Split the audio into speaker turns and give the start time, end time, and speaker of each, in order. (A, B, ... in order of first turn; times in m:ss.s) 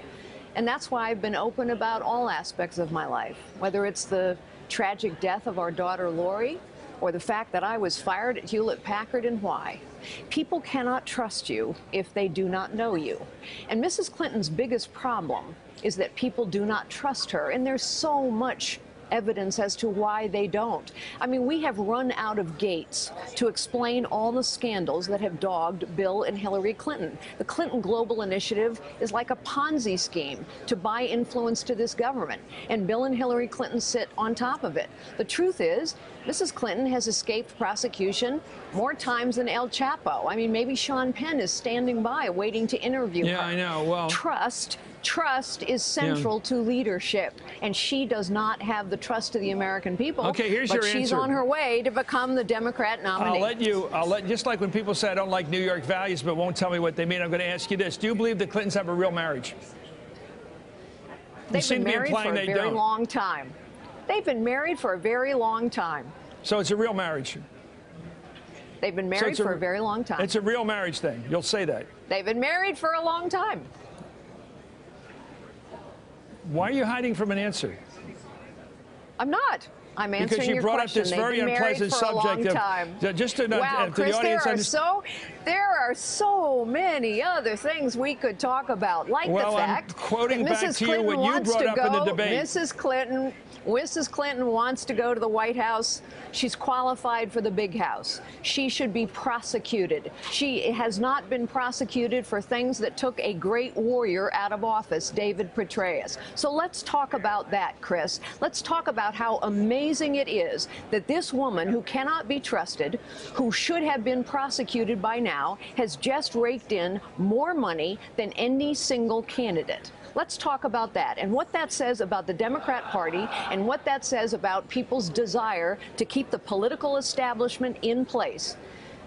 0:00.6-0:53.5 A
0:43.2-0:44.2 B
0:46.0-0:46.3 B
0:50.2-0:51.3 B
0:53.2-0:59.6 B
1:01.5-1:02.8 B
1:01.5-1:03.6 A
1:04.1-1:06.1 A
1:06.4-1:07.4 B
1:08.8-1:10.3 A
1:09.2-1:09.6 B
1:10.2-1:11.9 B
1:12.1-1:13.7 A
1:16.5-1:17.8 B
1:19.2-2:08.6 A
1:20.2-1:24.7 B
1:29.2-1:32.5 B